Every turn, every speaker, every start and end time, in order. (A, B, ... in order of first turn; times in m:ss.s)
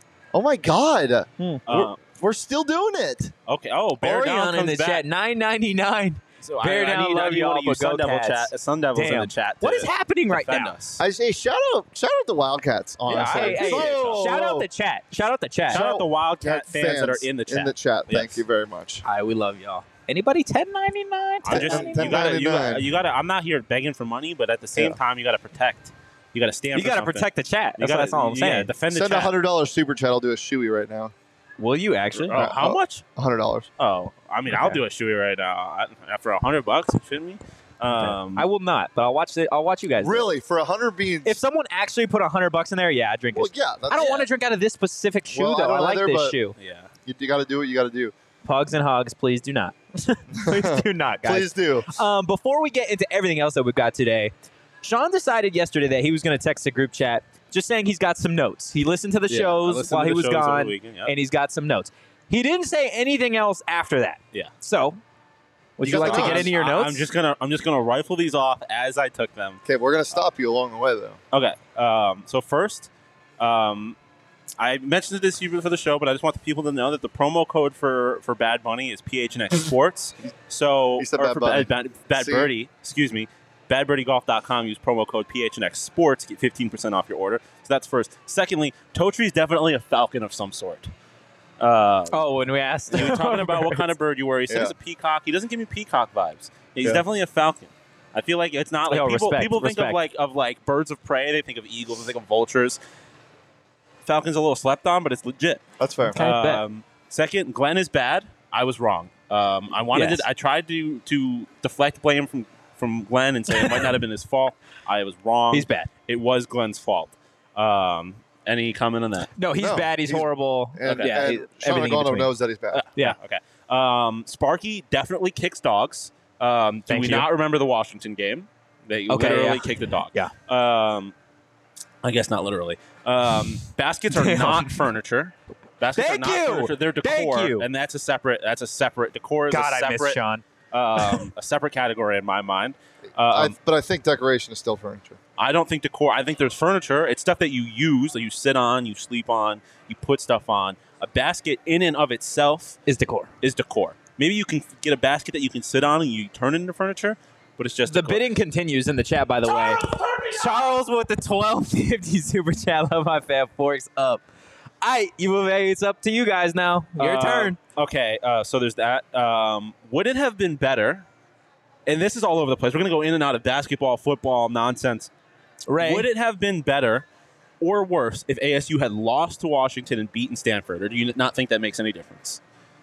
0:00.3-0:03.3 A
0:01.7-0:02.0 B
0:03.5-0:05.0 B
0:04.0-0:10.7 C
0:06.4-0:11.0 B
0:11.0-0:14.7 A
0:13.1-0:14.3 B
0:13.1-0:15.8 C
0:15.7-0:18.4 B
0:15.7-0:19.0 A
0:19.0-0:22.2 C
0:21.4-0:27.3 B
0:21.5-0:22.9 A
0:26.8-0:28.7 C
0:27.8-0:29.4 B
0:28.9-0:31.1 A
0:31.6-0:32.4 C
0:32.2-0:33.0 B
0:32.3-0:33.7 A
0:33.8-0:38.5 B
0:34.5-0:34.8 C
0:37.9-0:40.3 C
0:40.0-0:41.4 A
0:41.2-0:46.6 C
0:43.3-0:44.3 A
0:45.3-0:46.4 A
0:46.6-0:46.9 B
0:47.1-0:48.1 A
0:48.4-1:05.0 C
0:50.4-0:51.9 A
0:59.3-1:01.1 B
1:05.8-1:07.1 C
1:05.8-1:09.6 B
1:05.8-1:06.5 A
1:09.6-1:11.2 A
1:11.3-1:14.0 B
1:14.6-1:30.9 B
1:21.0-1:22.5 A
1:31.6-1:32.2 B
1:32.1-1:33.9 C
1:32.9-1:42.8 B
1:34.5-1:34.7 A
1:38.9-1:40.0 C
1:44.0-1:45.6 B
1:45.8-1:46.2 A
1:46.1-1:46.6 C
1:46.2-1:59.3 B
1:49.9-1:50.2 C
1:53.5-1:53.9 C
1:55.5-1:55.9 C
1:59.4-2:02.3 C
1:59.6-2:02.8 A
2:00.9-2:01.2 B
2:02.7-2:11.1 B
2:06.9-2:07.3 C
2:09.1-2:10.3 C
2:12.0-2:20.2 B
2:14.1-2:14.8 C
2:16.0-2:17.7 C
2:19.5-2:20.4 C
2:20.7-2:23.6 B
2:21.0-2:21.2 C
2:23.3-2:25.2 A
2:25.4-2:32.8 B
2:32.9-2:33.3 C
2:33.4-2:38.2 B
2:37.9-2:44.2 C
2:39.5-2:40.6 B
2:44.8-2:47.6 C
2:47.0-2:51.1 B
2:51.9-2:55.1 B
2:55.7-2:56.1 C
2:55.8-2:57.1 B
2:57.6-3:02.4 B